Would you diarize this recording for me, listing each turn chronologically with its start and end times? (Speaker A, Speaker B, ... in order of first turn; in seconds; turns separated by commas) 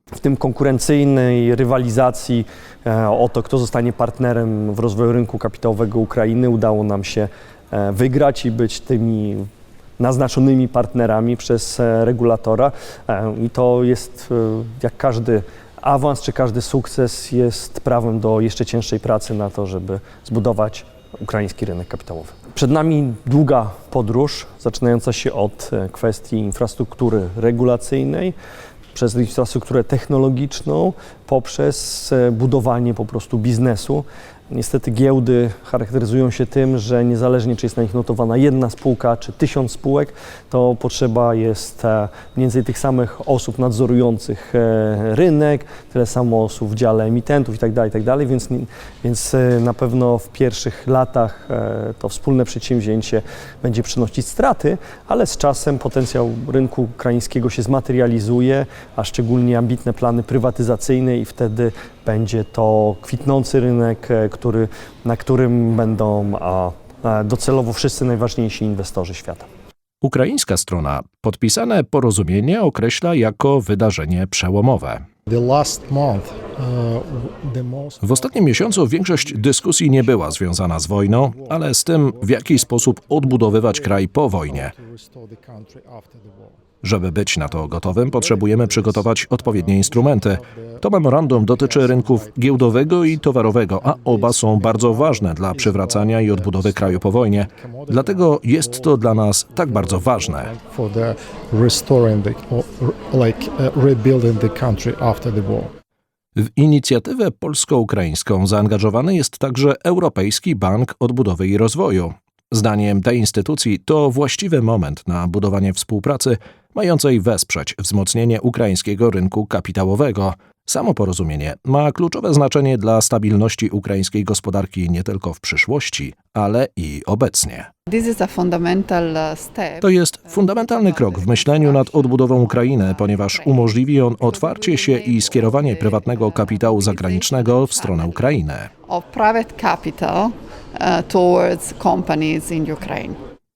Speaker A: 0.2-9.5, Speaker A: 10.0-28.3, Speaker A: 28.9-69.5, Speaker B: 70.0-75.0, Speaker C: 75.3-86.6, Speaker B: 78.0-84.7, Speaker B: 86.8-100.5, Speaker C: 87.5-105.7, Speaker B: 106.4-127.7, Speaker D: 127.9-138.3, Speaker B: 129.8-138.7, Speaker D: 138.8-143.2